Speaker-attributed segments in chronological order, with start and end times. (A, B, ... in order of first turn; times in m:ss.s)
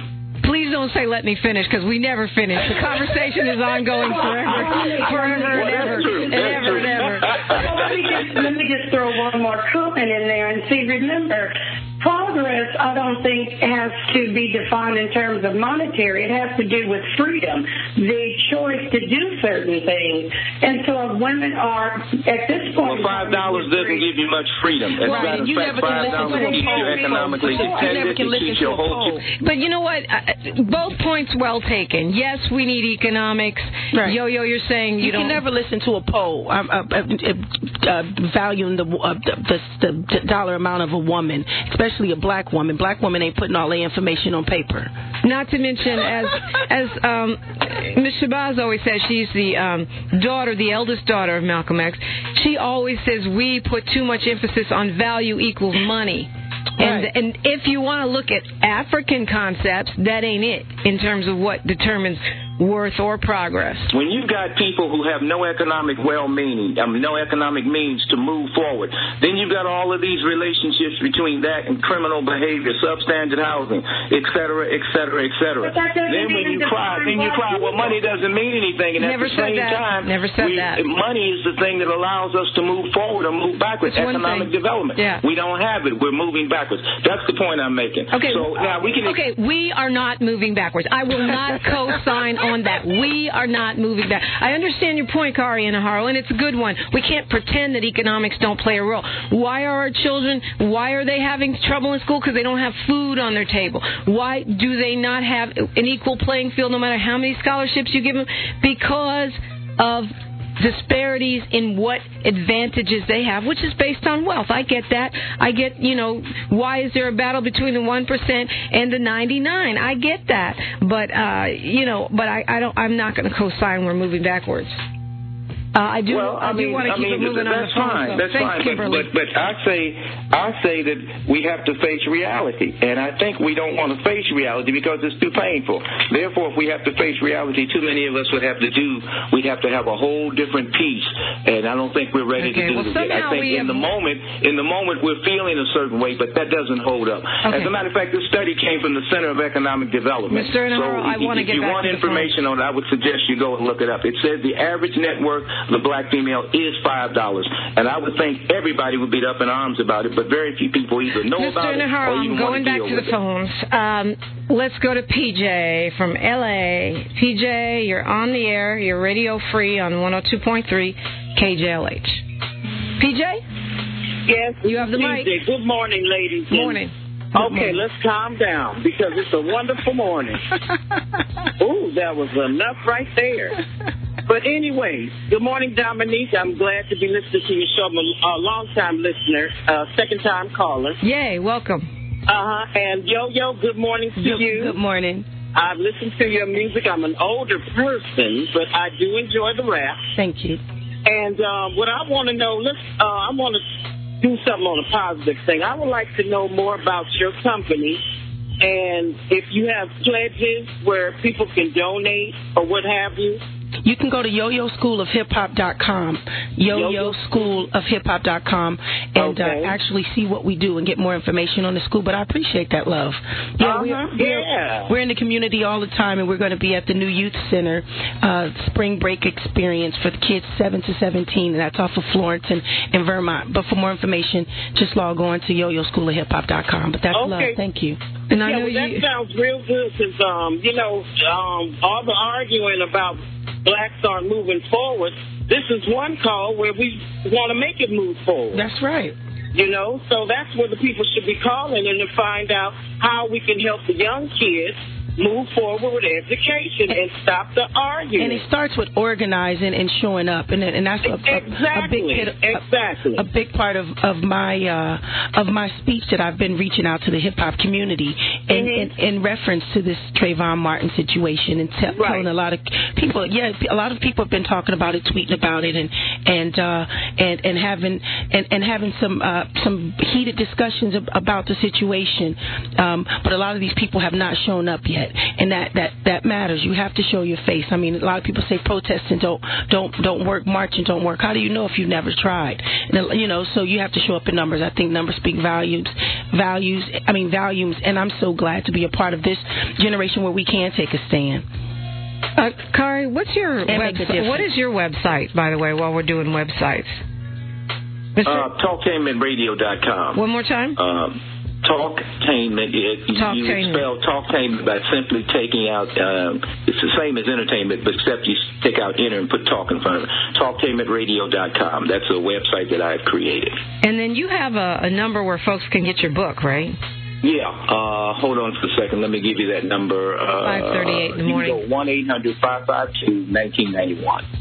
0:00.4-0:07.3 A
0:04.1-0:24.0 B
0:04.5-0:07.8 C
0:22.8-0:29.2 C
0:25.0-0:29.2 D
0:26.3-0:26.8 B
0:29.4-0:35.4 A
0:33.9-0:34.2 D
0:35.0-0:44.9 D
0:45.2-1:03.9 A
0:56.8-0:57.1 D
1:03.9-1:29.2 C
1:15.6-1:18.0 B
1:19.0-1:20.8 A
1:23.9-1:25.2 A
1:28.1-2:04.8 A
2:05.8-2:09.1 A
2:06.1-2:43.1 C
2:22.4-2:23.9 A
2:27.4-2:27.7 A
2:30.3-2:32.3 A
2:41.4-2:52.2 A
2:53.0-2:53.4 A
2:54.2-2:56.8 E
2:54.7-2:55.3 A
2:56.5-2:56.9 A
2:57.3-3:00.4 E
2:57.4-2:57.8 D
3:01.6-3:03.6 E
3:04.3-3:11.0 E
3:11.0-3:11.9 A
3:12.3-3:14.8 E
3:14.2-3:15.3 D
3:15.6-3:20.0 E
3:20.2-3:20.6 D
3:21.1-3:23.6 E
3:24.2-3:28.0 E
3:28.6-3:33.4 E
3:33.8-3:58.0 D
3:36.7-3:37.5 E
3:39.2-3:39.8 E
3:43.6-3:44.9 E
3:57.1-3:57.6 E
3:58.3-3:59.0 A
3:58.4-4:08.6 E
4:08.5-4:09.2 D
4:09.5-4:18.4 E
4:18.2-4:22.6 D
4:21.0-4:23.2 E
4:23.2-5:01.4 D
4:28.5-4:28.9 E
4:31.9-4:32.3 E
5:02.4-5:07.0 A
5:03.7-5:04.5 D
5:08.2-5:08.5 A
5:08.2-5:10.2 C
5:10.2-5:10.8 A
5:10.8-5:23.6 C
5:13.2-5:13.9 A
5:23.8-5:26.8 A
5:27.2-5:34.2 C
5:30.4-5:31.6 A